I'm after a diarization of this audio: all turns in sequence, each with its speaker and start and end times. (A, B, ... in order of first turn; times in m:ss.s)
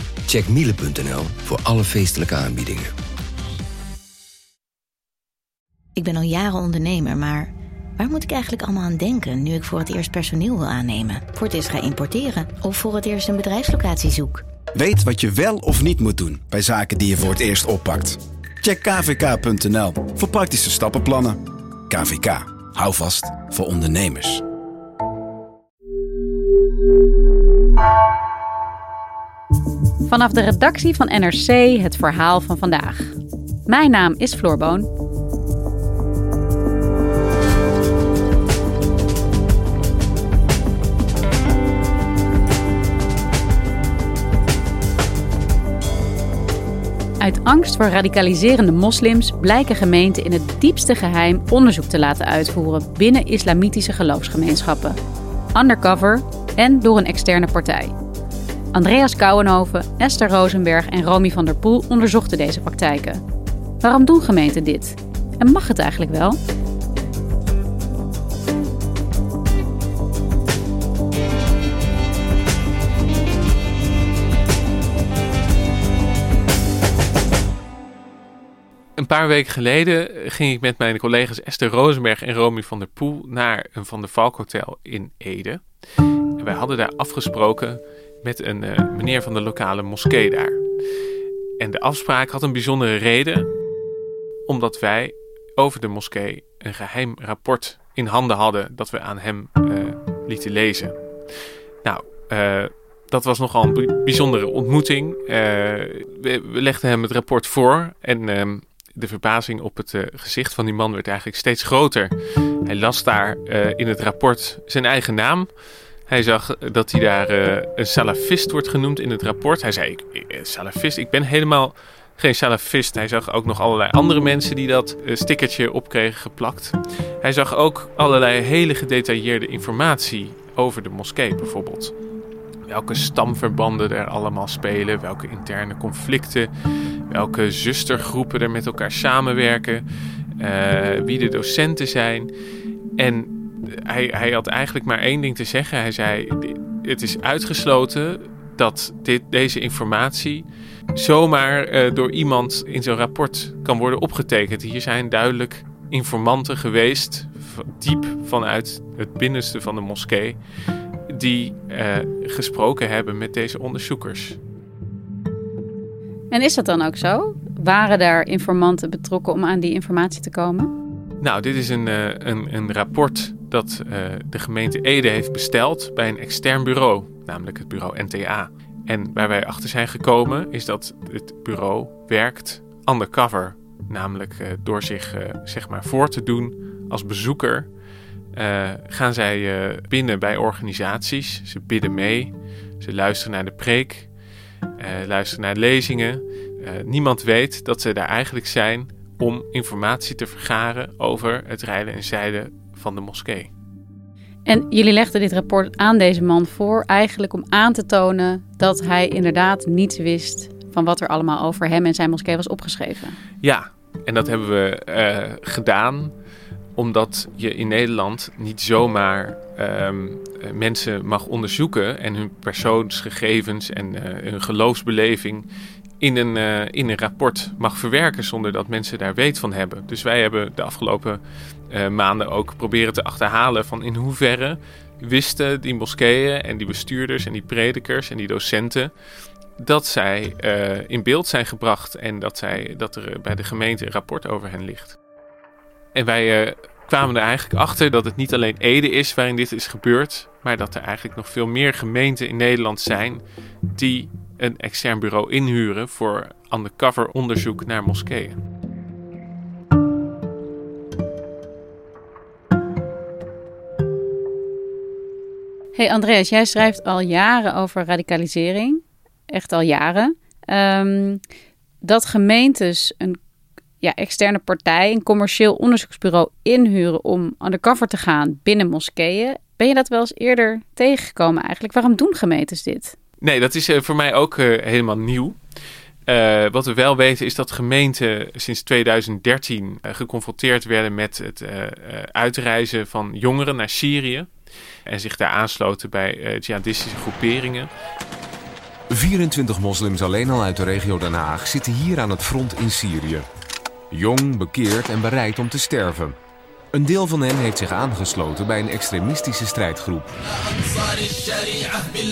0:00.3-0:02.9 A
0:06.0-0:14.4 B
0:14.8-0:24.4 C
0:30.0-0:34.9 D
0:47.2-0:55.0 D
0:55.5-0:57.9 D
0:58.7-1:03.2 D
1:03.8-1:06.4 D
1:19.0-1:25.6 E
1:26.4-1:30.6 E
1:31.6-1:33.5 E
1:34.5-1:41.0 E
1:41.8-1:52.1 E
1:52.7-1:55.5 E
1:56.1-2:11.9 E
2:12.7-2:16.5 E
2:17.1-2:19.8 E
2:20.4-2:22.3 E
2:23.0-2:40.4 E
2:41.1-2:44.4 E
2:46.3-2:50.7 D
2:51.2-3:07.7 E
3:08.4-3:14.1 E
3:14.8-3:23.5 E
3:24.4-3:33.2 D
3:33.4-3:36.1 E
3:36.8-3:45.5 E
3:46.0-3:58.9 E
3:59.6-4:05.0 E
4:06.0-4:13.2 E
4:13.7-4:18.4 E
4:25.8-4:31.2 D
4:31.8-4:33.2 D
4:33.8-4:43.0 D
4:43.2-4:45.4 E
4:46.1-4:54.3 E
4:54.9-4:57.7 E
4:58.9-5:03.3 F
5:03.9-5:06.2 F
5:06.7-5:10.1 F